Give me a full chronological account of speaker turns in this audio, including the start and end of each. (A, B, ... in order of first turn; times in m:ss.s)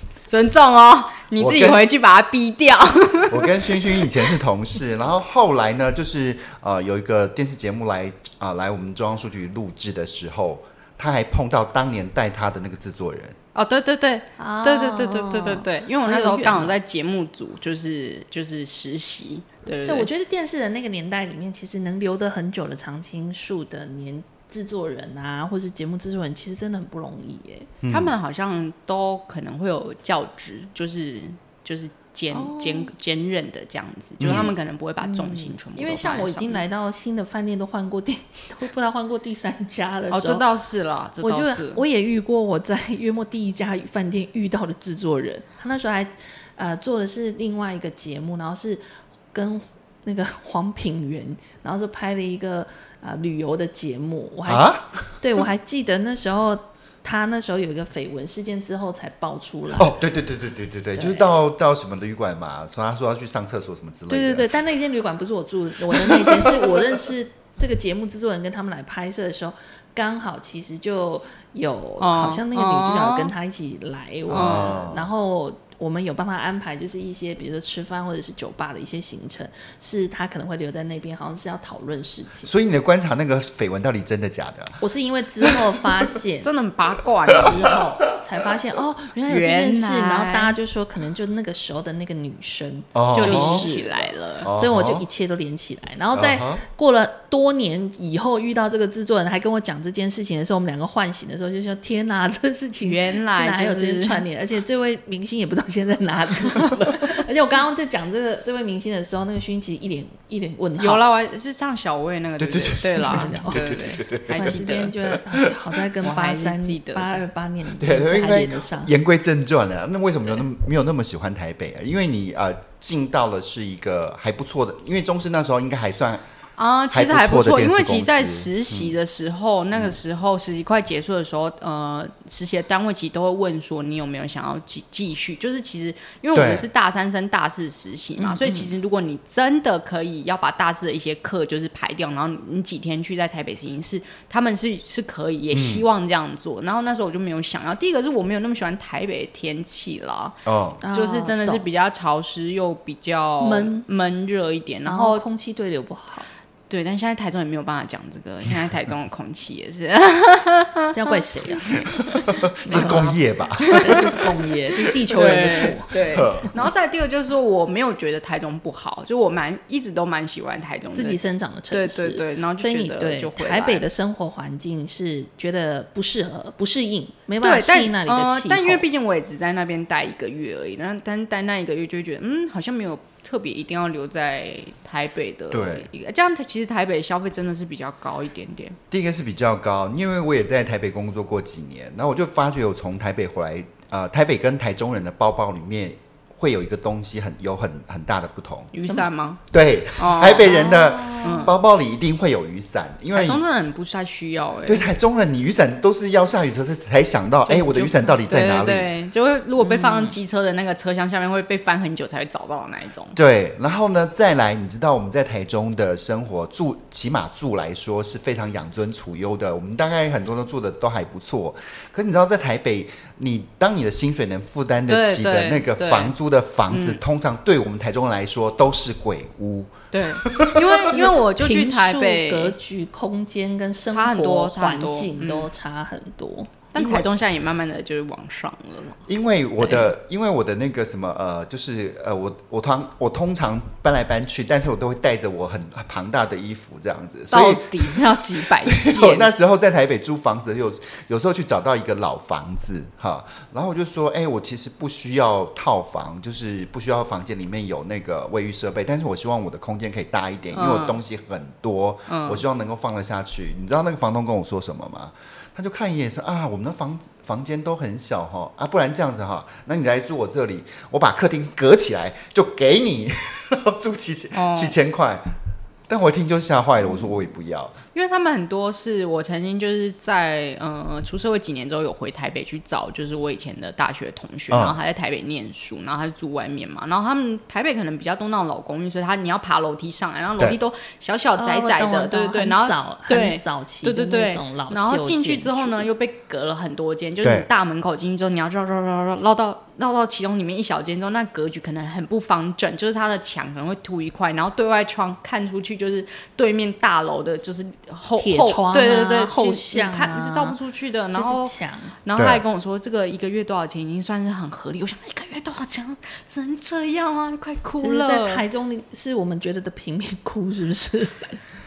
0:00.3-0:04.0 A
0:01.4-0:01.8 B
0:03.3-0:13.4 B
0:13.5-0:20.1 A
0:14.4-0:16.8 C
0:19.9-0:27.7 C
0:27.8-0:28.1 B
0:27.9-0:36.6 A
0:32.3-0:32.9 C
0:34.2-0:34.5 B
0:35.0-0:40.4 C
0:40.1-0:41.8 A
0:41.2-0:48.8 C
0:49.3-1:00.0 C
0:54.5-0:55.0 B
0:59.8-1:04.5 B
1:01.0-1:01.3 C
1:04.1-1:22.5 C
1:05.9-1:06.8 B
1:12.0-1:13.3 A
1:14.3-1:15.1 B
1:14.3-1:14.7 A
1:22.4-1:24.8 B
1:24.8-1:26.5 C
1:25.4-1:25.8 B
1:26.4-1:27.7 A
1:27.3-1:51.0 C
1:29.3-1:30.5 A
1:33.0-1:33.7 B
1:33.2-1:34.5 A
1:34.4-1:35.0 B
1:36.1-1:36.6 B
1:42.8-1:44.3 A
1:50.8-1:54.9 A
1:52.4-1:54.6 B
1:53.0-1:58.9 C
1:55.1-1:55.5 B
1:56.0-1:57.2 A
1:57.8-2:06.2 B
2:06.6-2:35.2 A
2:06.9-2:08.9 B
2:16.3-2:16.7 B
2:18.2-2:18.7 C
2:25.5-2:25.8 B
2:30.5-2:30.8 B
2:30.8-2:31.6 C
2:33.4-2:33.9 C
2:34.9-2:36.3 C
2:36.7-2:41.8 A
2:40.9-2:46.5 C
2:41.9-2:44.0 B
2:42.7-2:43.1 A
2:43.6-2:44.0 A
2:45.1-2:51.2 A
2:46.0-2:46.5 B
2:51.0-2:58.8 C
2:51.7-2:53.8 A
2:57.4-3:08.8 A
3:05.5-3:05.9 B
3:08.9-3:18.7 B
3:18.7-3:19.4 A
3:18.8-3:19.1 C
3:19.5-3:23.4 B
3:20.0-3:20.6 A
3:20.2-3:21.5 C
3:21.2-3:21.6 A
3:23.1-3:24.9 A
3:24.7-3:28.9 B
3:27.5-3:33.2 A
3:29.6-3:30.2 C
3:33.2-3:50.9 B
3:44.9-3:46.1 A
3:46.7-3:47.0 A
3:49.9-3:52.6 A
3:50.9-3:56.5 C
3:53.9-3:55.5 A
3:56.7-3:59.0 A
3:56.8-3:57.1 B
3:59.1-4:35.3 B
3:59.6-3:59.9 A
4:07.3-4:09.3 A
4:20.6-4:21.0 A
4:22.1-4:22.4 A
4:34.3-4:34.8 A
4:35.9-4:37.8 B
4:37.9-5:11.5 A
4:44.5-4:44.8 B
4:51.4-4:55.9 C
4:57.2-4:57.5 B
5:08.2-5:10.6 C
5:11.1-5:11.9 C
5:12.0-5:18.4 A
5:12.2-5:12.4 B
5:17.8-5:21.4 C